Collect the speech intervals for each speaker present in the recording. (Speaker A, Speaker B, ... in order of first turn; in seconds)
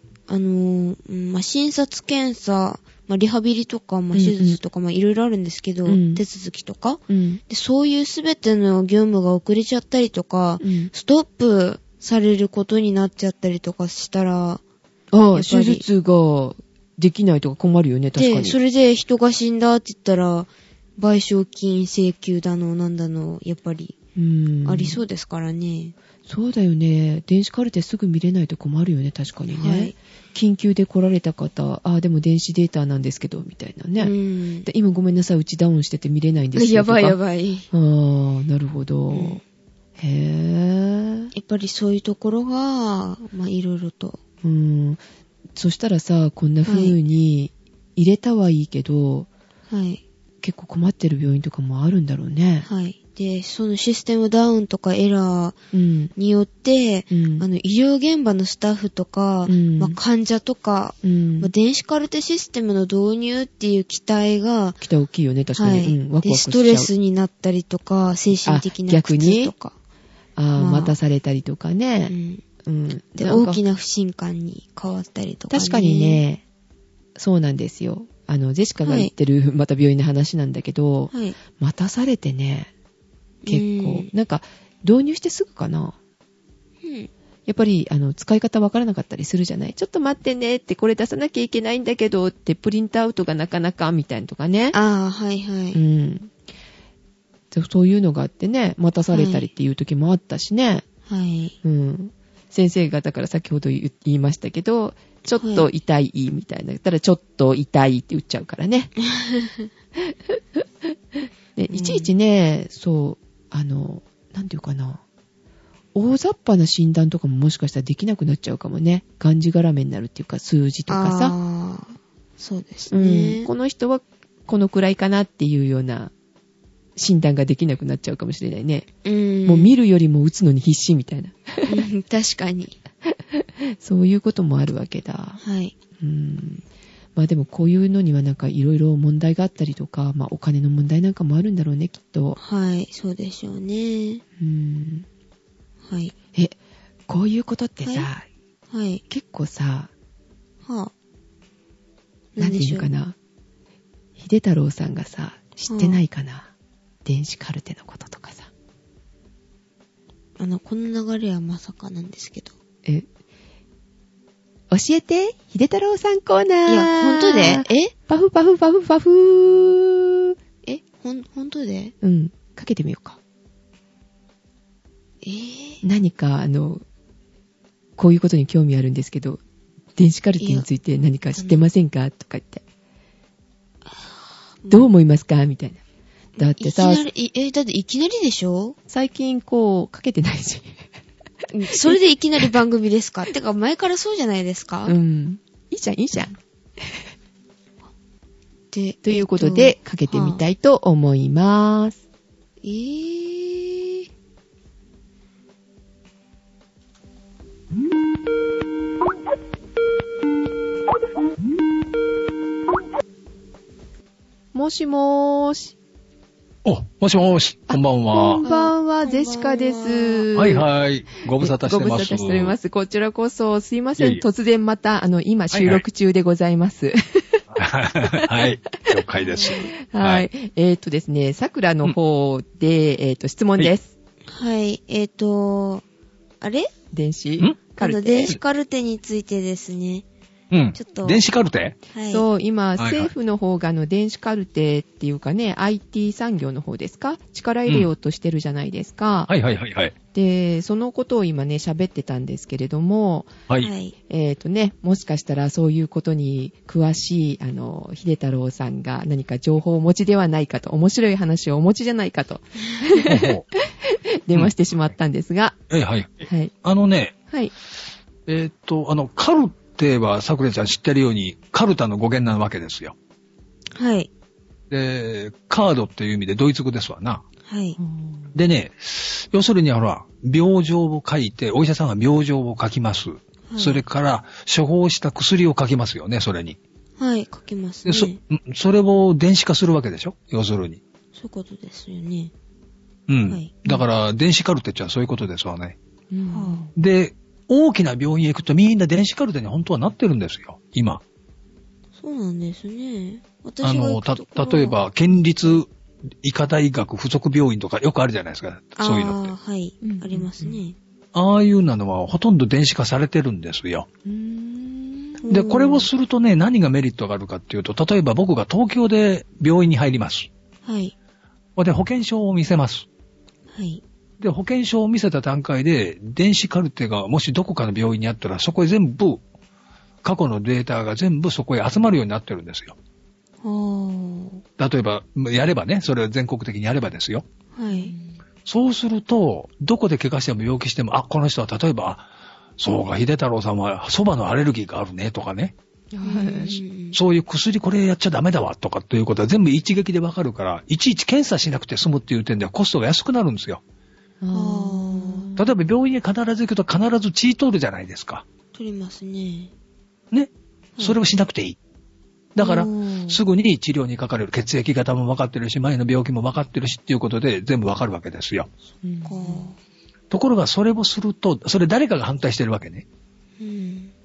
Speaker A: 0.3-14.6, 15.3-15.8, 18.2-23.9, 24.6-25.9, 29.5-29.9, 34.0-34.7, 36.5-37.6, 39.1-39.4, 41.3-44.2, 46.6-47.0, 49.7-50.0, 52.6-55.6, 56.1-64.8, 65.5-69.7, 70.5-71.0, 72.1-72.4, 73.2-76.2, 78.8-79.1, 81.1-81.4, 83.4-84.1, 86.8-87.1, 94.7-95.8, 99.1-99.5, 101.1-101.5, 105.4-105.7, 109.0-109.7, 111.7-112.1, 120.9-123.5, 129.0-129.7, 131.7-132.8, 135.4-135.7, 142.4-144.2, 145.8-146.1, 147.8-148.1, 148.7-149.0, 150.7-150.9, 152.3-152.9, 155.7-156.0, 160.4-162.5, 166.7-167.9, 170.6-171.9, 175.2-175.8, 180.4-180.7, 181.3-181.6, 183.9-184.9, 186.4-188.8, 191.5-194.9, 198.7-200.4, 202.6-204.1, 218.4-220.2, 229.2-229.7, 234.3-235.8, 236.4-236.7, 237.8-240.0, 240.7-241.2, 241.9-242.2, 253.6-253.9, 273.7-274.1, 277.5-277.8, 283.5-283.8, 287.0-288.2, 291.1-292.3, 293.3-293.6, 296.3-296.7, 302.0-304.8, 308.8-310.8, 315.2-315.9, 320.6-320.9, 323.5-323.8, 333.4-334.4, 337.5-337.9, 346.0-347.0, 354.3-355.3, 358.5-359.5, 362.4-363.2, 369.0-369.6, 373.4-373.9
Speaker B: 4.1-4.6, 5.8-6.2, 7.1-7.4, 10.6-10.9, 15.1-18.6, 24.1-25.0, 26.2-34.1, 34.6-37.2, 37.7-39.4, 40.0-41.3, 44.4-45.0, 45.5-49.3, 50.4-52.7, 55.7-56.1, 57.1-57.5, 59.5-60.0, 61.0-61.5, 64.8-66.9, 68.4-69.5, 70.3-72.1, 72.6-73.6, 75.5-76.4, 77.2-82.7, 83.5-86.0, 87.5-94.8, 95.7-96.3, 97.5-100.8, 101.6-108.9, 110.0-110.9, 111.5-115.0, 115.9-121.3, 122.9-126.1, 127.0-128.9, 129.4-131.8, 133.1-135.4, 136.0-136.6, 137.2-142.4, 144.4-145.1, 147.1-148.3, 149.1-149.9, 152.4-153.2, 154.2-156.5, 157.0-158.5, 164.7-170.3, 172.0-173.2, 175.8-176.8, 178.0-179.4, 179.9-182.6, 184.7-185.8, 186.4-187.0, 188.9-190.8, 194.8-197.0, 199.0-202.0, 214.5-215.7, 217.7-220.7, 221.4-227.4, 228.0-229.0, 229.8-233.9, 236.9-238.4, 242.1-249.3, 250.1-253.3, 254.1-265.6, 266.2-266.5, 277.8-278.3, 296.1-296.7, 309.8-310.6, 314.1-315.2, 337.7-338.1, 345.9-346.6, 354.2-355.5, 368.8-369.5
Speaker C: 216.6-218.4, 220.3-222.5, 224.0-224.2, 225.5-225.8, 227.5-230.2, 240.5-241.8, 242.8-243.1, 249.3-249.9, 263.0-263.5, 265.7-267.1, 268.3-272.9, 274.7-277.2, 278.3-286.6, 287.9-290.8, 293.1-295.8, 296.8-301.0, 303.6-305.7, 306.2-309.3, 311.1-313.9, 315.3-320.3, 321.6-322.9, 324.2-329.2, 330.0-332.8, 334.6-337.2, 338.4-345.5, 346.4-353.6, 355.4-358.2, 360.1-361.6, 362.3-368.5, 370.1-372.8